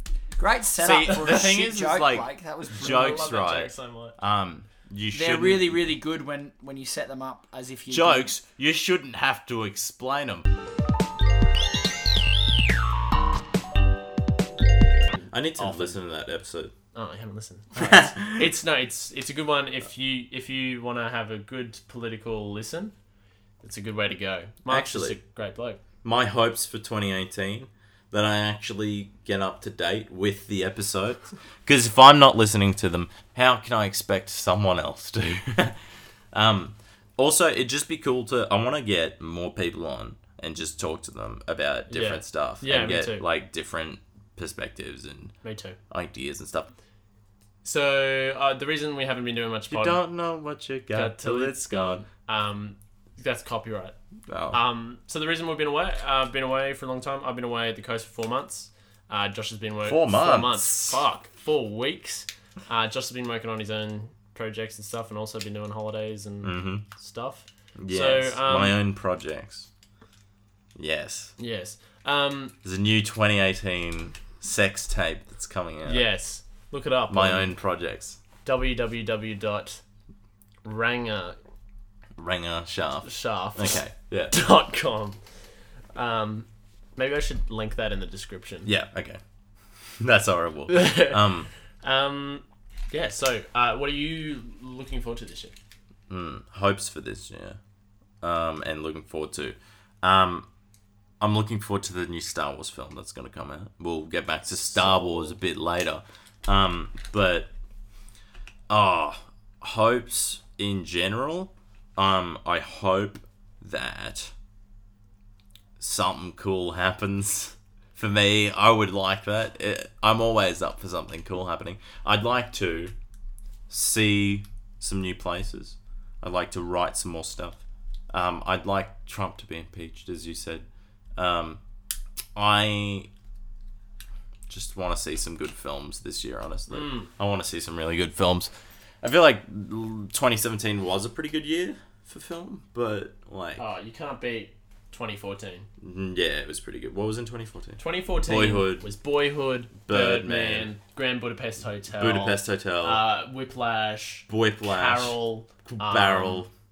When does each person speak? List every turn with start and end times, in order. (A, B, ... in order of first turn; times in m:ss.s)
0:00.4-0:03.3 A
0:00.7-0:05.9 B
0:02.7-0:04.2 C
0:05.1-0:08.3 A
0:07.9-0:10.5 B
0:15.1-0:16.0 C
0:15.3-0:16.7 B
0:16.9-0:22.9 C
0:17.8-0:18.5 B
0:23.6-0:25.8 C
0:24.7-0:25.2 B
0:26.0-0:35.8 B
0:36.3-0:45.4 B
0:41.9-0:43.2 C
0:45.4-0:45.8 C
0:45.9-0:46.7 B
0:47.6-0:50.0 C
0:49.7-0:52.0 B
0:50.9-0:54.0 C
0:54.3-0:54.6 B
0:54.5-1:08.8 C
0:59.8-1:01.0 B
1:06.4-1:06.8 B
1:07.8-1:09.7 B
1:10.8-1:11.4 B
1:11.4-1:12.5 C
1:12.6-1:16.1 B
1:15.8-1:17.5 C
1:17.1-1:18.2 B
1:18.4-1:19.8 C
1:20.6-1:21.4 C
1:22.2-1:24.4 B
1:23.0-1:25.2 C
1:25.9-1:28.7 C
1:28.7-1:29.2 B
1:30.0-1:31.5 B
1:30.7-1:31.2 C
1:31.8-1:35.5 C
1:36.1-1:37.6 B
1:38.2-1:40.5 B
1:41.2-1:47.5 B
1:44.8-1:45.3 C
1:48.7-1:54.3 B
1:55.8-2:02.9 B
2:03.7-2:11.6 B
2:12.4-2:13.1 B
2:14.5-2:18.5 B
2:16.7-2:17.1 C
2:19.0-2:23.6 B
2:23.6-2:25.7 C
2:25.8-2:28.9 B
2:27.8-2:36.5 C
2:29.9-2:30.7 B
2:32.0-2:33.0 B
2:34.3-2:36.5 B